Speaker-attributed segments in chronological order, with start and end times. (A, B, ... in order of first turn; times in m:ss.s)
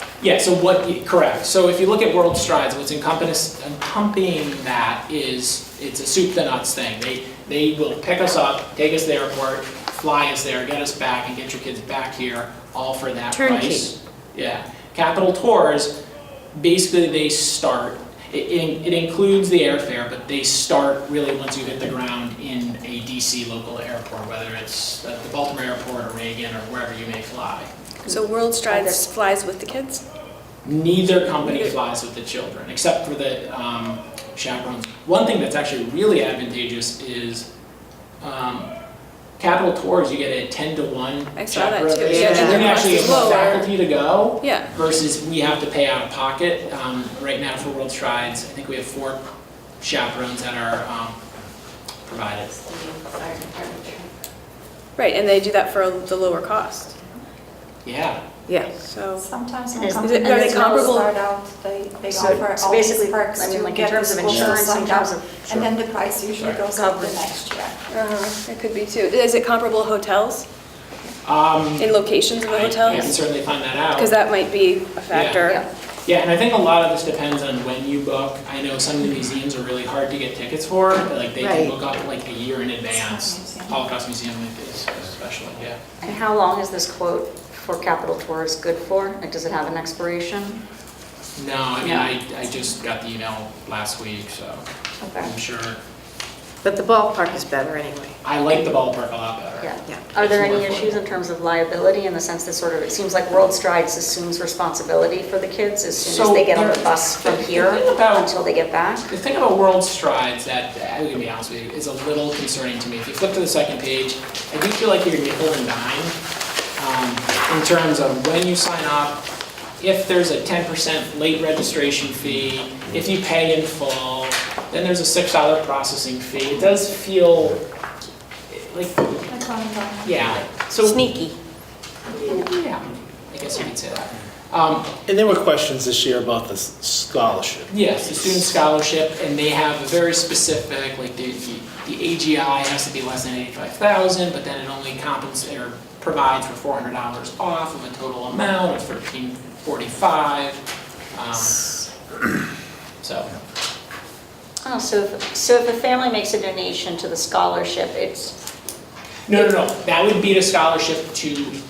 0:00.2-0:15.9 A
0:13.3-0:13.9 B
0:16.6-0:27.7 A
0:28.0-0:30.0 C
0:28.1-0:29.0 D
0:30.6-0:37.5 A
0:31.2-0:31.7 C
0:38.2-0:38.7 A
0:39.4-0:49.2 A
0:41.3-0:43.7 C
0:42.0-0:42.9 B
0:44.4-0:44.7 C
0:49.8-0:51.2 A
0:52.1-0:52.6 A
0:52.8-0:54.1 D
0:55.0-0:57.0 C
0:57.8-0:58.2 A
0:58.8-0:59.2 C
0:59.2-1:07.8 E
0:59.7-1:01.0 D
0:59.9-1:01.1 C
1:02.1-1:05.6 D
1:06.4-1:06.6 A
1:06.7-1:07.2 D
1:07.9-1:10.5 C
1:11.2-1:14.2 A
1:11.8-1:13.4 C
1:13.9-1:15.6 C
1:15.1-1:15.5 A
1:16.1-1:25.8 A
1:21.4-1:21.8 B
1:22.9-1:23.8 E
1:26.0-1:30.6 D
1:31.4-1:34.6 A
1:31.8-1:32.1 D
1:35.0-1:35.3 D
1:35.2-1:35.8 A
1:36.6-1:38.2 B
1:38.2-1:41.0 A
1:39.6-1:49.1 D
1:46.0-1:48.4 A
1:49.1-1:56.2 A
1:56.8-1:59.2 A
1:59.8-2:07.6 A
2:08.5-2:09.2 A
2:09.3-2:10.2 E
2:10.0-2:11.1 A
2:10.8-2:11.4 B
2:12.1-2:14.9 A
2:15.0-2:17.7 F
2:17.7-2:30.6 A
2:31.1-2:31.8 A
2:31.4-2:31.8 D
2:33.0-2:33.3 A
2:34.6-2:38.4 D
2:39.3-2:41.6 A